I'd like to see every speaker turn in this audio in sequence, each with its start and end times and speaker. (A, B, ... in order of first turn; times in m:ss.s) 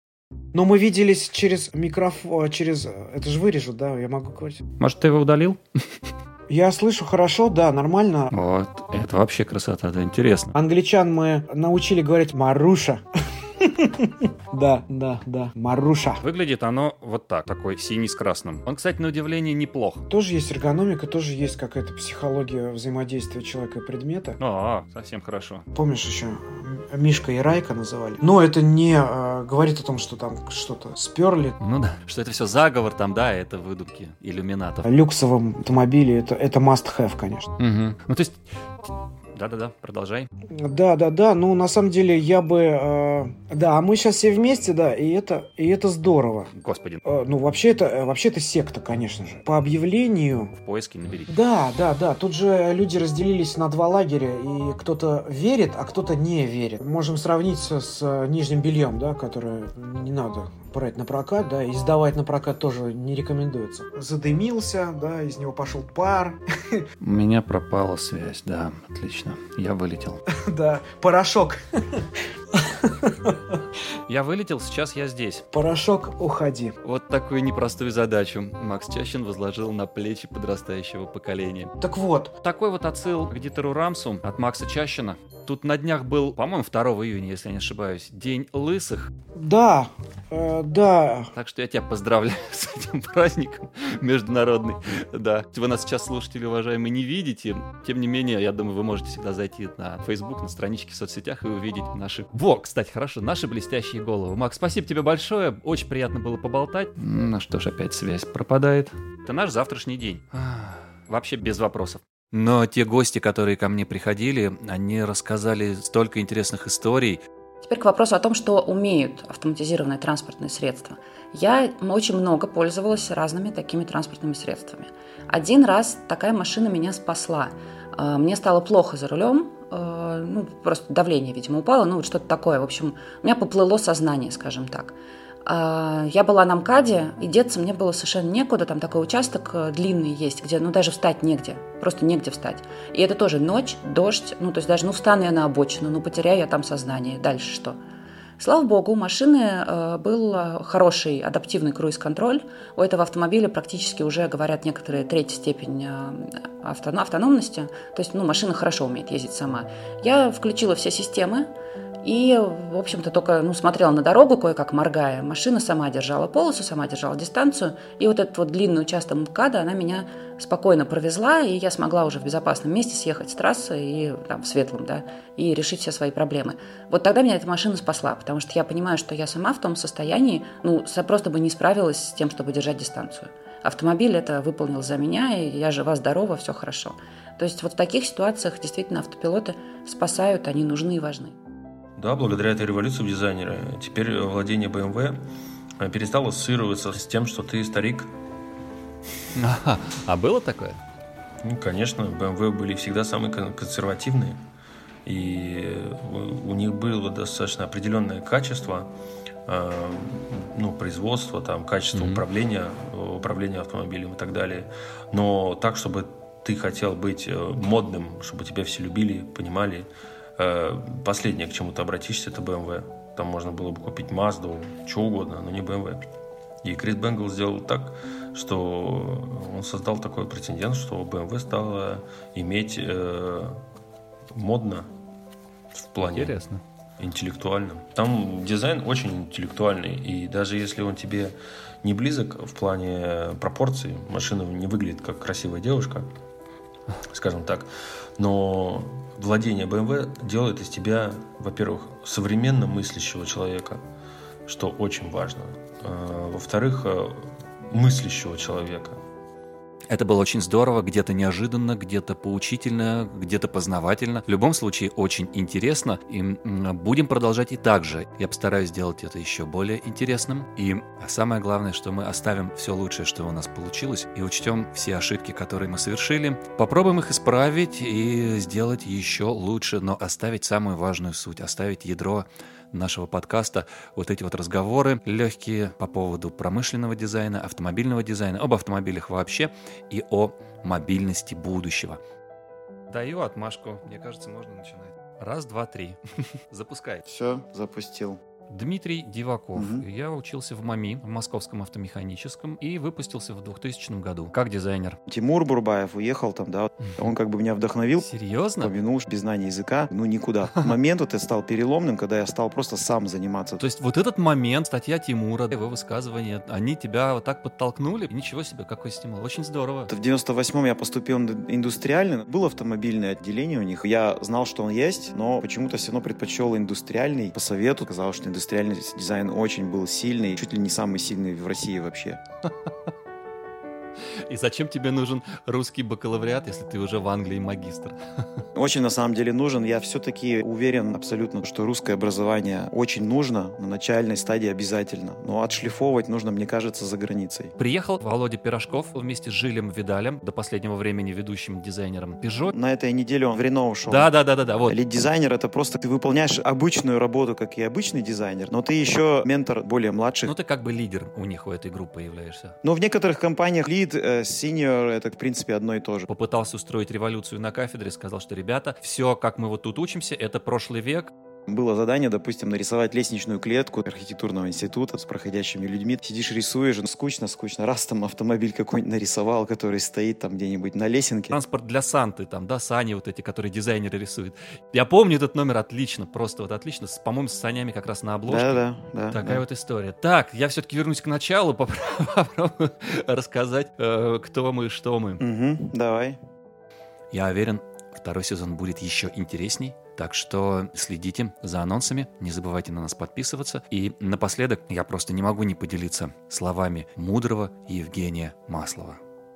0:00.5-0:04.6 A
0:04.8-0:05.6 B
0:06.5-0:08.3 A
0:08.3-0:10.5 B
0:10.5-0:13.0 A
0:13.6-0:16.2 A
0:16.2-0:20.0 B
0:20.1-0:24.4 A
0:24.4-0:25.7 B
0:25.7-0:31.6 A
0:31.6-0:34.9 B
0:34.8-0:37.5 A
0:37.6-0:40.3 B
0:40.5-0:46.5 A
0:46.5-0:47.1 B
0:47.0-0:50.5 A
0:50.6-0:51.4 B
0:51.3-1:06.8 A
1:07.0-1:10.2 B
1:10.3-1:12.0 A
1:12.6-1:13.5 A
1:14.1-1:15.4 B
1:15.5-1:16.8 A
1:16.8-1:21.7 B
1:21.8-1:22.3 A
1:22.4-1:29.1 B
1:29.3-1:31.3 A
1:31.3-1:57.2 B
1:57.6-2:27.8 C
2:28.4-2:41.5 C
2:42.0-3:11.3 C
3:12.0-3:15.2 D
3:15.8-3:18.1 D
3:19.4-3:20.8 B
3:21.4-3:24.4 D
3:25.1-3:28.9 D
3:29.5-3:46.0 D
3:31.9-3:32.2 B
3:46.6-3:53.6 D
3:54.4-3:54.9 D
3:55.9-3:56.4 D
3:56.0-3:56.6 B
3:57.0-4:06.0 D
4:07.1-4:07.7 D
4:08.2-4:13.8 D
4:14.5-4:19.0 D
4:19.9-4:52.0 B
4:52.9-4:57.0 B
4:57.0-4:58.2 E
4:58.5-5:05.0 B
4:59.6-4:59.8 E
5:05.1-5:08.1 E
5:08.0-5:08.7 B
5:08.6-5:13.6 E
5:13.6-5:19.9 B
5:19.9-5:32.2 E
5:34.2-5:38.4 B
5:38.6-5:47.5 E
5:47.6-5:52.5 B
5:52.5-5:54.1 E
5:53.9-5:54.8 B
5:54.7-6:00.3 E
6:00.2-6:02.6 B
6:02.6-6:06.1 E
6:06.1-6:11.1 B
6:11.5-6:21.4 E
6:21.3-6:35.2 B
6:28.3-6:29.4 E
6:35.2-6:36.2 E
6:37.1-6:49.0 B